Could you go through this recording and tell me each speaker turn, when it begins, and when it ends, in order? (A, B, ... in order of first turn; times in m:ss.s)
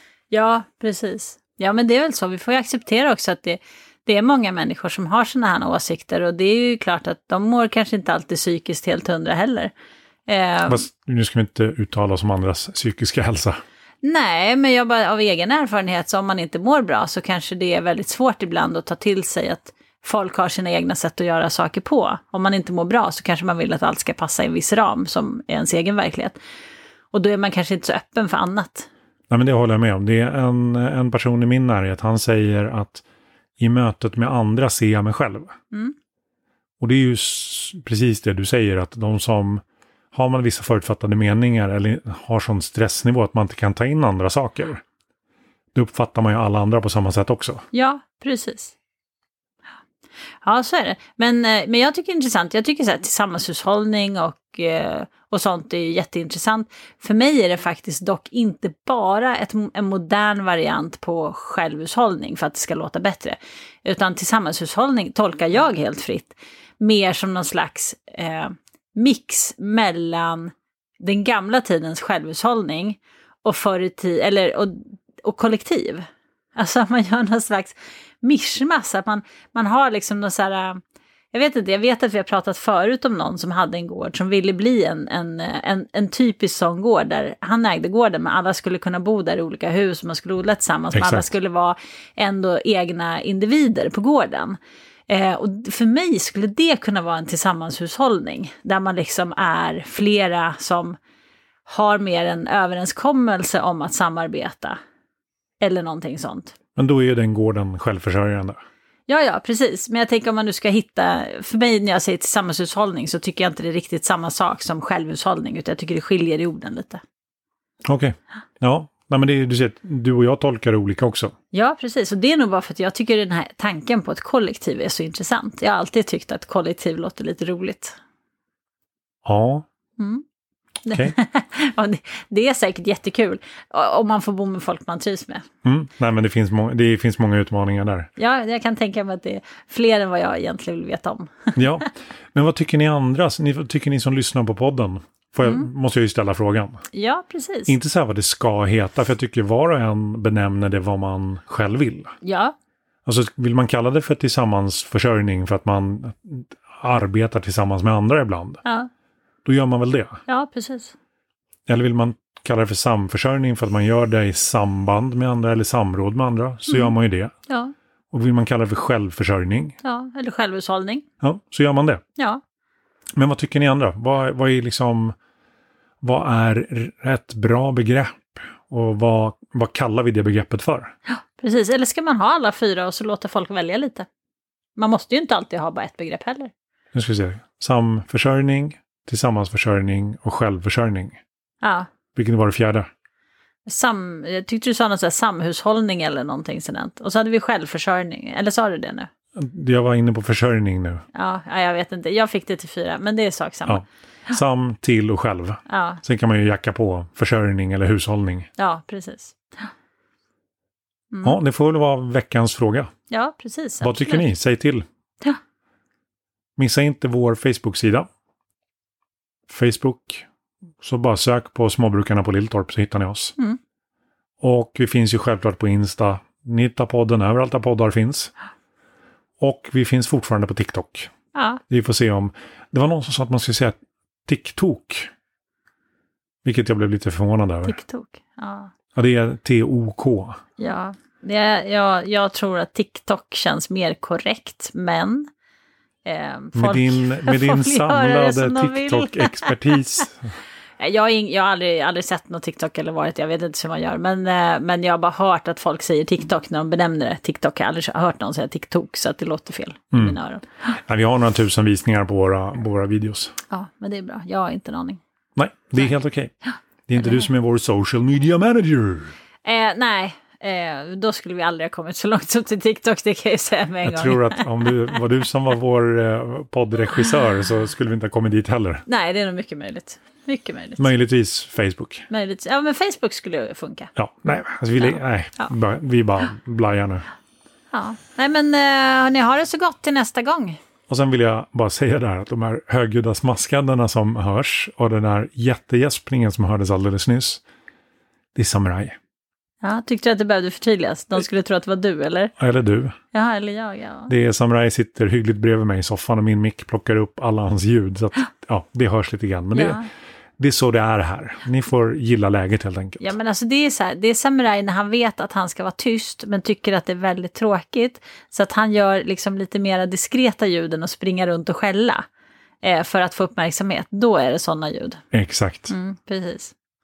0:00.3-0:09.7 A
0:10.3-0:10.8 A
0:10.7-0:13.6 B
0:14.0-0:26.4 A
0:27.1-0:28.9 A
0:29.3-0:33.0 B
0:33.6-0:35.5 B
0:36.8-0:39.6 B
0:40.1-0:44.8 B
0:45.7-0:47.6 B
0:47.7-0:48.7 A
0:50.4-1:20.8 A
1:21.3-1:34.6 A
1:30.9-1:31.3 B
1:35.1-1:41.0 A
1:41.6-1:44.8 A
1:45.6-1:46.5 A
1:46.8-1:48.6 B
1:49.1-1:57.0 A
1:57.8-2:01.3 B
2:01.5-2:08.0 A
2:09.2-2:09.6 B
2:10.0-2:10.2 A
2:10.8-2:15.4 A
2:15.6-2:18.1 B
2:18.2-2:21.9 A
2:21.5-2:26.8 B
2:26.9-2:27.7 A
2:27.7-2:32.1 B
2:32.2-2:32.5 A
2:33.0-2:38.6 B
2:39.4-2:40.2 B
2:40.3-2:40.9 A
2:41.7-2:47.3 B
2:46.7-2:46.9 A
2:47.5-2:47.7 A
2:48.1-2:49.8 B
2:49.8-2:51.0 A
2:51.2-2:52.0 B
2:53.2-2:55.2 B
2:56.0-3:00.9 B
3:01.1-3:04.1 A
3:04.8-3:06.5 A
3:06.9-3:11.2 B
3:11.6-3:11.9 A
3:12.1-3:12.9 B
3:13.6-3:19.1 A
3:19.3-3:21.0 B
3:21.1-3:23.8 A
3:23.6-3:28.5 B
3:25.7-3:26.0 A
3:28.6-3:29.7 A
3:31.1-3:31.4 A
3:31.2-3:32.9 B
3:33.1-3:34.2 A
3:33.8-3:34.8 B
3:36.6-3:38.1 B
3:39.5-3:40.2 B
3:40.8-3:43.3 B
3:44.4-3:48.3 B
3:49.4-3:51.1 B
3:51.3-3:51.6 A
3:51.7-3:55.1 B
3:56.4-3:57.8 B
3:57.6-3:58.7 A
3:58.9-4:00.4 B
4:00.6-4:05.3 A
4:06.0-4:10.0 A
4:06.5-4:10.3 B
4:10.8-4:20.4 A
4:19.9-4:23.3 B
4:23.5-4:25.0 A
4:25.4-4:26.3 B
4:26.9-4:29.1 B
4:29.4-4:34.7 A
4:33.8-4:38.8 B
4:38.9-4:40.9 A
4:40.8-4:42.1 B
4:42.1-4:43.9 A
4:44.0-4:47.0 B
4:44.8-4:45.5 A
4:47.7-4:50.6 A
4:50.9-4:57.4 B
4:58.3-4:59.0 B
4:59.6-5:02.3 A
5:02.4-5:02.9 B
5:03.1-5:04.1 A
5:04.1-5:09.8 B
5:09.5-5:09.8 A
5:10.4-5:13.1 B
5:13.0-5:22.0 A
5:22.6-5:25.0 A
5:25.1-5:25.7 B
5:25.7-5:26.5 A